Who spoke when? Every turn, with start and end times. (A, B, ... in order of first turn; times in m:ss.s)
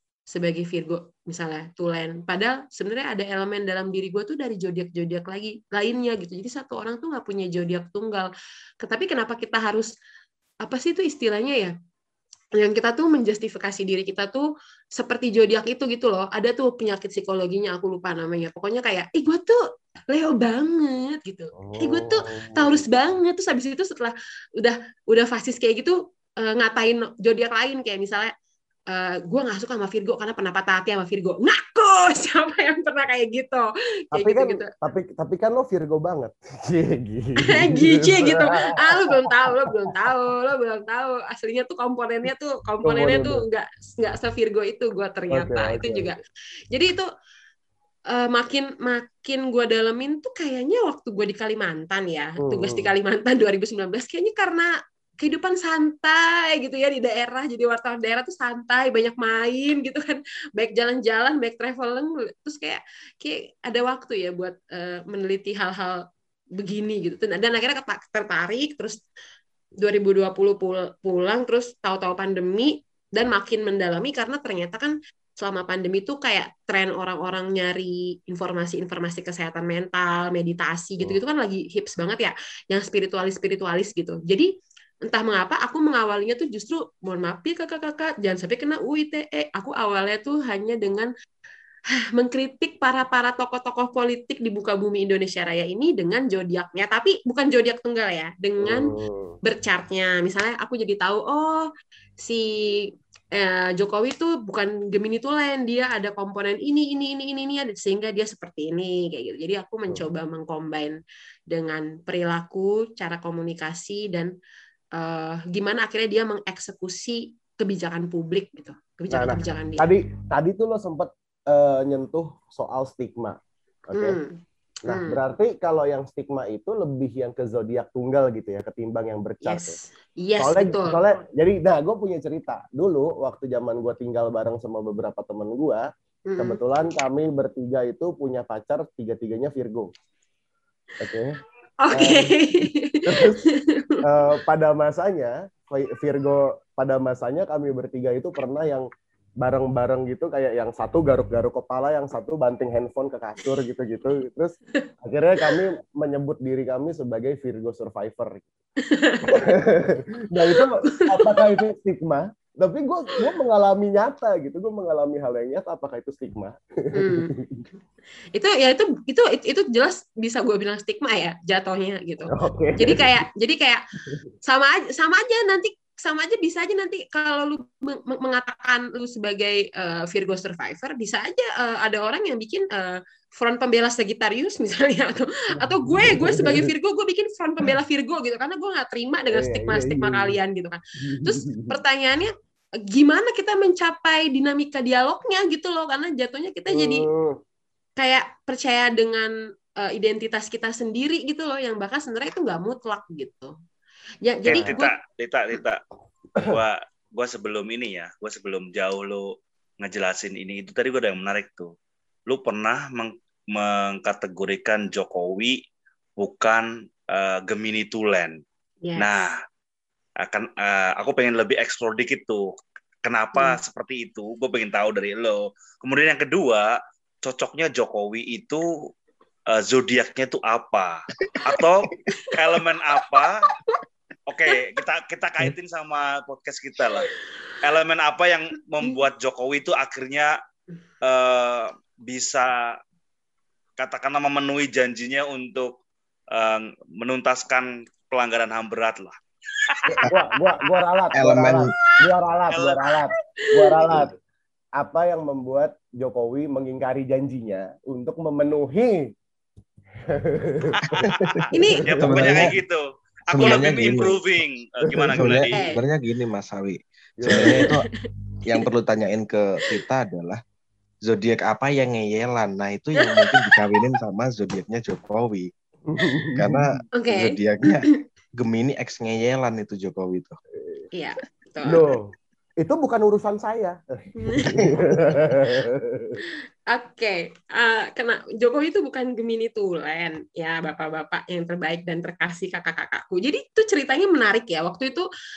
0:00.3-0:08.3 A
0:08.8-0:09.9 A
0:10.6-0:11.7 A
0:12.6-0:28.3 A
0:21.5-0:22.8 B
0:28.9-0:34.7 A
0:34.1-0:39.7 B
0:37.4-0:46.2 A
0:42.8-0:43.4 B
0:45.3-0:46.2 B
0:46.7-0:47.1 A
0:48.1-1:06.0 A
0:52.4-0:52.9 B
1:06.6-1:09.0 A
1:09.8-1:24.5 A
1:25.1-1:31.1 A
1:32.2-1:51.0 A
1:38.6-1:39.4 B
1:51.5-1:54.3 A
1:55.0-1:59.9 A
1:59.1-2:04.2 B
2:03.9-2:05.2 A
2:04.9-2:09.8 B
2:09.4-2:11.0 A
2:10.4-2:15.9 B
2:16.3-2:16.6 A
2:16.4-2:19.9 B
2:21.0-2:21.4 B
2:21.8-2:24.0 A
2:21.9-2:22.4 B
2:23.1-2:23.4 B
2:24.0-2:28.9 B
2:29.4-2:38.5 B
2:38.9-2:39.5 A
2:39.2-2:47.6 B
2:40.5-2:41.6 A
2:46.9-2:47.4 A
2:48.3-2:53.8 A
2:52.3-2:53.2 B
2:54.4-3:12.3 A
3:05.6-3:06.7 B
3:09.3-3:10.4 B
3:11.0-3:11.8 B
3:12.9-3:17.1 A
3:16.7-3:17.4 B
3:18.0-3:23.5 A
3:24.2-3:25.0 A
3:24.5-3:25.8 C
3:26.4-3:31.7 C
3:32.3-3:35.6 C
3:36.2-3:38.4 C
3:38.8-3:39.1 A
3:39.0-3:39.4 C
3:40.2-3:42.5 C
3:43.0-3:48.7 C
3:49.5-3:53.5 C
3:54.3-4:00.4 C
4:01.0-4:02.8 C
4:03.8-4:05.8 C
4:06.3-4:10.8 C
4:09.9-4:14.2 B
4:11.1-4:11.7 D
4:12.5-4:13.0 C
4:13.4-4:14.0 A
4:14.8-4:19.1 B
4:20.1-4:22.6 B
4:20.8-4:25.6 C
4:21.5-4:21.8 A
4:21.9-4:22.6 D
4:23.3-4:24.2 D
4:23.4-4:23.8 B
4:24.9-4:25.2 B
4:25.1-4:27.9 D
4:25.5-4:25.8 A
4:27.2-4:27.7 B
4:27.4-4:27.8 A
4:28.5-4:30.4 D
4:31.0-4:35.5 D
4:33.0-4:33.5 A
4:35.9-4:36.8 B
4:36.3-4:40.4 D
4:36.9-4:37.4 A
4:40.9-4:41.9 A
4:41.6-4:46.2 B
4:44.2-4:44.6 A
4:46.7-4:55.1 A